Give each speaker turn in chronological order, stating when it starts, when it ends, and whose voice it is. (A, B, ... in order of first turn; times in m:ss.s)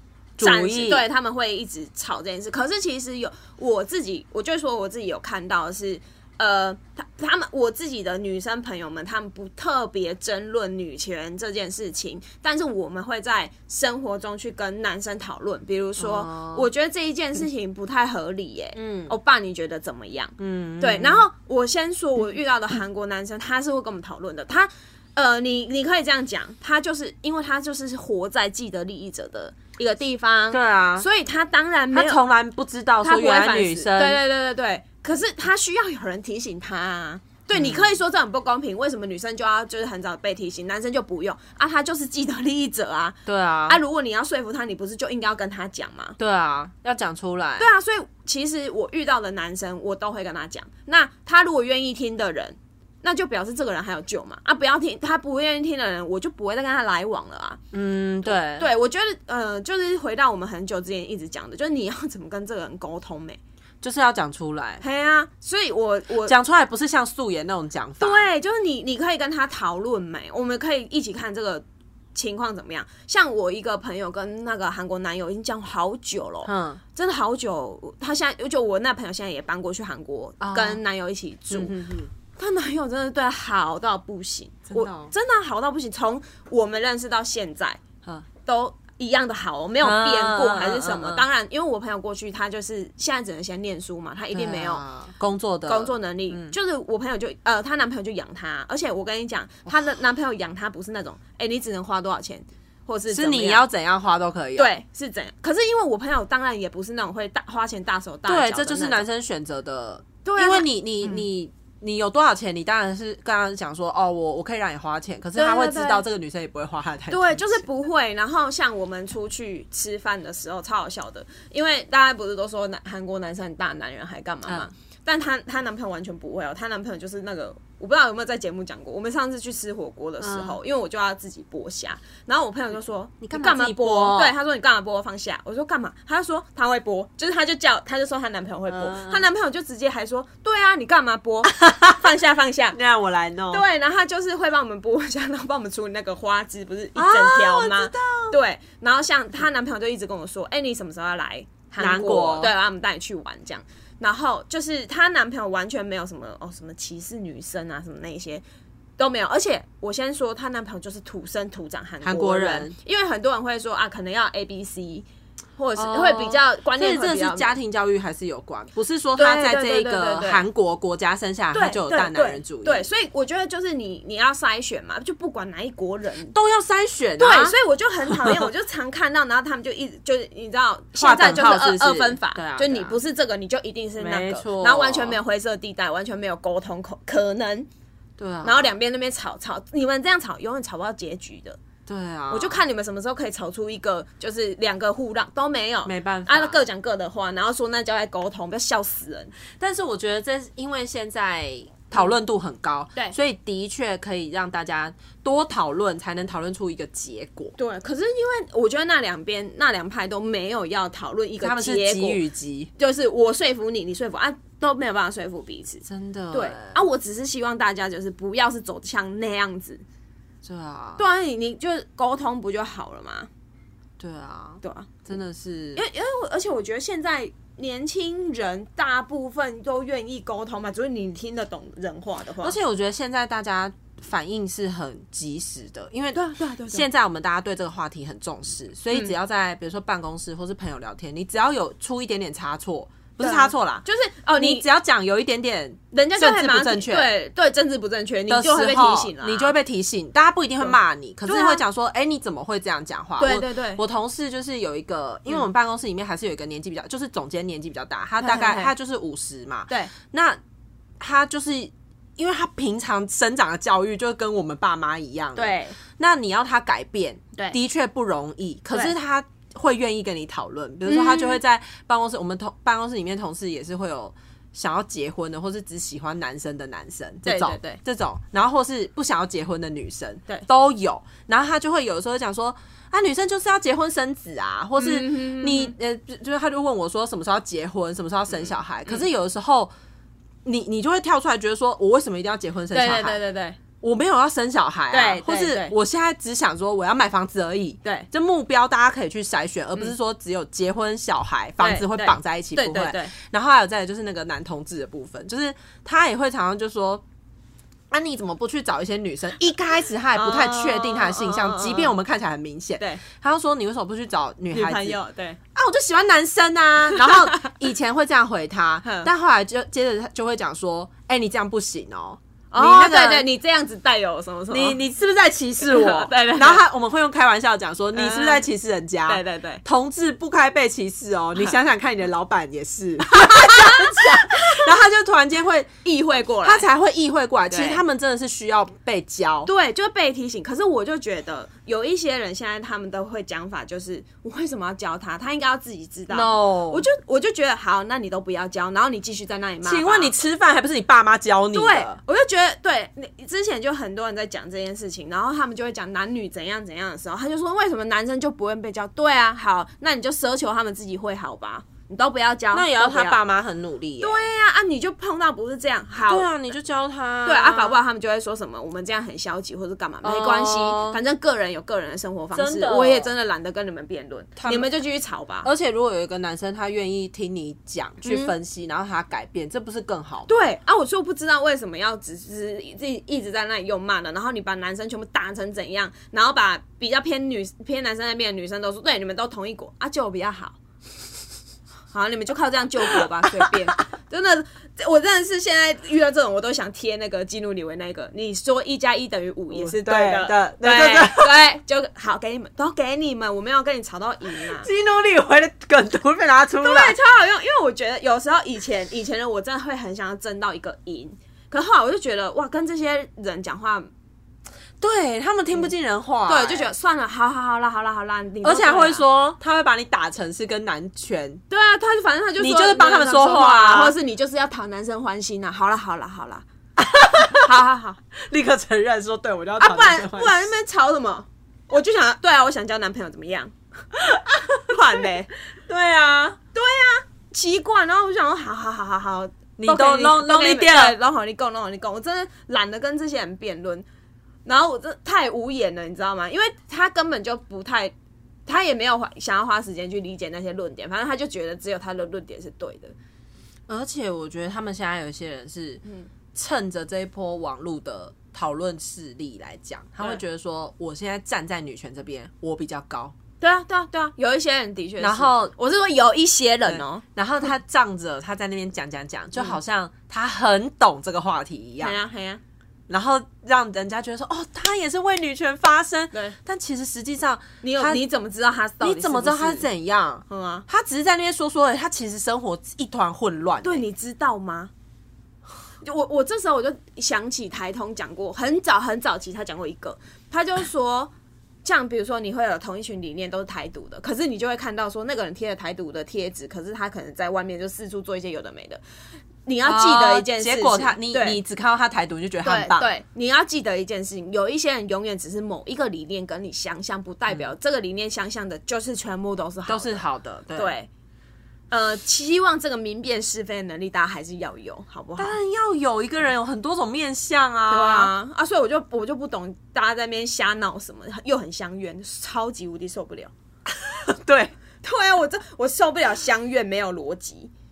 0:00.4-0:01.0 A
0:00.4-0:32.2 B
0:16.0-0:16.7 A
0:18.7-0:19.1 A
0:20.4-0:21.2 A
0:30.5-0:31.1 A
0:31.9-0:34.2 A
0:33.0-0:46.2 B
0:37.5-0:38.0 A
0:43.2-0:43.8 A
0:46.2-0:47.7 A
0:47.6-0:57.6 B
0:57.7-0:58.7 A
0:58.2-1:03.4 B
1:03.8-1:04.8 A
1:04.8-1:06.3 B
1:06.2-1:08.2 A
1:08.0-1:21.8 B
1:16.4-1:16.8 A
1:20.4-1:20.8 A
1:21.5-1:22.1 A
1:22.3-1:27.8 B
1:24.7-1:25.1 A
1:28.4-1:34.8 B
1:29.8-1:31.2 A
1:34.3-1:36.5 A
1:35.7-1:43.6 B
1:43.1-1:44.7 A
1:44.6-1:49.0 B
1:48.3-1:57.6 A
1:50.2-1:51.2 B
1:55.3-1:56.0 B
1:57.1-2:22.8 B
2:10.2-2:10.6 A
2:13.2-2:14.3 A
2:18.7-2:19.2 A
2:21.4-2:22.1 A
2:22.7-2:23.6 A
2:23.5-2:38.4 B
2:27.0-2:28.4 A
2:31.8-2:32.5 A
2:39.0-2:47.6 B
2:42.0-2:42.7 A
2:45.8-2:52.9 A
2:49.2-2:50.4 B
2:51.5-2:56.3 B
2:56.3-2:57.6 A
2:57.2-3:07.7 B
2:58.1-2:58.5 A
3:01.0-3:03.0 A
3:04.0-3:05.2 A
3:08.2-3:08.7 A
3:08.4-3:11.6 B
3:11.9-3:12.6 A
3:12.3-3:19.3 B
3:15.8-3:16.6 A
3:19.5-3:27.5 A
3:27.6-3:32.2 B
3:31.4-3:32.7 A
3:32.8-3:39.8 B
3:35.8-3:36.8 A
3:40.4-3:41.0 A
3:41.0-3:43.3 B
3:44.0-3:45.8 A
3:44.6-3:44.9 B
3:45.8-3:52.6 B
3:52.4-4:03.8 A
3:56.1-3:56.9 B
4:03.2-4:04.6 B
4:04.4-4:07.1 A
4:05.9-4:09.5 B
4:08.3-4:20.4 A
4:10.6-4:11.6 B
4:13.2-4:13.8 B
4:18.2-4:18.7 B
4:21.0-4:49.7 A
4:25.3-4:25.8 B
4:30.8-4:31.4 B
4:37.2-4:37.8 B
4:44.8-4:45.7 B
4:48.3-4:49.0 B
4:50.4-4:53.2 A
4:52.7-4:53.6 B
4:53.8-5:07.0 A
4:54.9-4:55.7 B
5:01.6-5:03.1 B
5:07.9-5:15.0 A
5:10.2-5:11.9 B
5:14.5-5:15.4 B
5:15.5-5:23.3 A
5:16.9-5:17.5 B
5:18.8-5:19.1 B
5:22.5-5:24.8 B
5:24.5-5:35.7 A
5:25.6-5:26.6 B
5:27.9-5:28.5 B
5:29.0-5:29.6 B
5:33.1-5:34.7 B
5:35.8-5:36.7 B
5:36.4-5:39.5 A
5:37.5-5:37.8 B
5:39.4-5:50.1 B
5:46.1-5:46.9 A
5:49.6-5:52.0 A
5:51.5-6:03.2 B
6:02.5-6:04.3 A
6:04.0-6:06.3 B
6:06.1-6:07.8 A
6:07.2-6:15.5 B
6:10.0-6:11.0 A
6:12.3-6:13.1 A
6:14.4-6:14.7 A
6:15.4-6:20.4 A
6:18.0-6:18.3 B
6:20.3-6:30.6 B
6:31.9-6:44.7 B
6:39.5-6:41.4 A
6:44.3-6:47.0 A
6:46.6-6:53.9 B
6:54.8-6:56.7 A
6:56.3-6:59.0 B
6:58.4-7:01.4 A
7:01.5-7:06.4 B
7:02.4-7:03.9 A
7:06.8-7:07.5 A
7:07.3-7:08.0 B
7:08.1-7:10.5 A
7:09.6-7:13.5 B
7:14.2-7:14.8 A
7:14.5-7:15.3 B
7:15.7-7:16.4 A
7:16.5-7:23.8 B
7:19.6-7:21.0 A
7:24.4-7:27.9 B
7:28.4-7:32.9 B
7:33.7-7:35.8 A
7:36.3-7:43.1 A
7:43.4-7:47.0 B
7:45.0-7:45.5 A
7:46.6-7:52.0 A
7:51.8-7:52.4 B
7:52.9-7:58.0 A
7:57.6-7:59.6 B
7:58.8-8:03.8 A
8:00.3-8:00.6 B
8:03.6-8:04.7 B
8:05.8-8:11.1 B
8:11.6-8:18.8 B
8:19.4-8:21.4 B
8:19.6-8:22.9 A
8:22.4-8:30.0 B
8:29.7-8:30.7 A
8:30.5-8:30.9 B
8:31.7-8:35.4 B
8:35.2-8:38.1 A
8:37.7-8:43.3 B
8:43.8-8:44.5 A
8:44.8-8:47.5 B